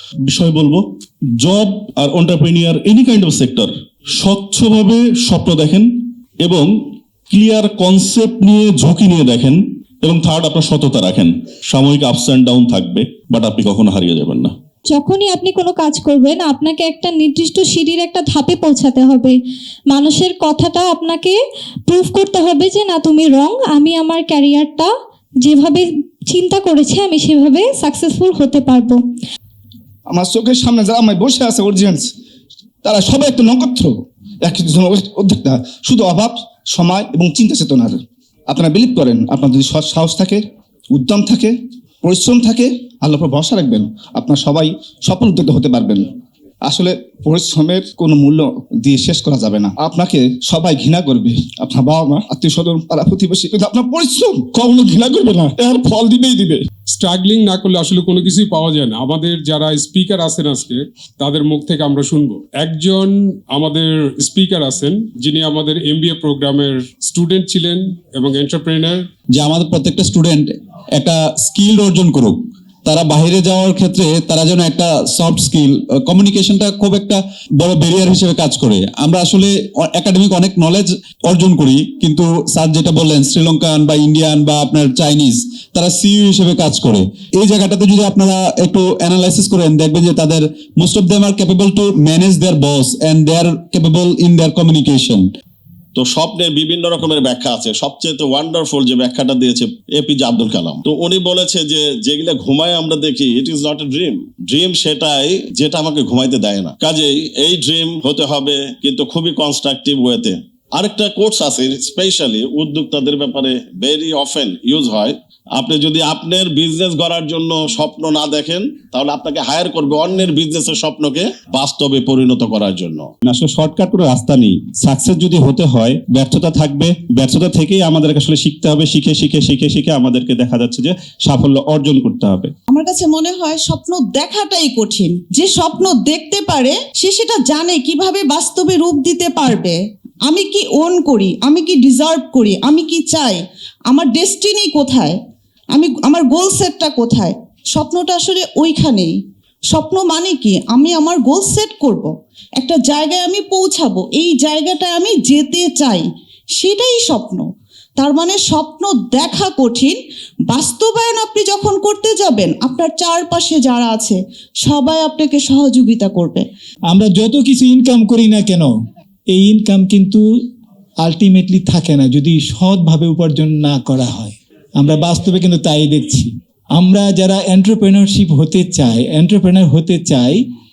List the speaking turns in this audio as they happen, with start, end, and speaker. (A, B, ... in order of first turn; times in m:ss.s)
0:00.3-0:00.8 A
0:01.5-0:03.7 A
0:04.2-0:05.8 A
0:07.3-0:09.5 A
0:10.0-0:11.0 A
0:11.7-0:14.5 A
0:14.9-0:19.4 B
0:19.9-0:24.9 B
0:25.4-0:29.0 B
0:30.1-0:32.1 C
0:32.8-0:40.4 C
0:40.9-0:46.1 C
0:46.6-0:56.6 C
0:56.9-1:09.1 D
1:09.3-1:35.3 E
1:36.0-2:03.1 A
2:03.2-2:12.5 E
2:12.7-2:25.2 F
2:25.7-2:29.1 F
2:29.7-2:36.1 F
2:36.6-2:40.0 F
2:40.5-2:46.4 F
2:46.9-2:48.7 G
2:49.3-2:50.2 G
2:51.0-3:00.4 G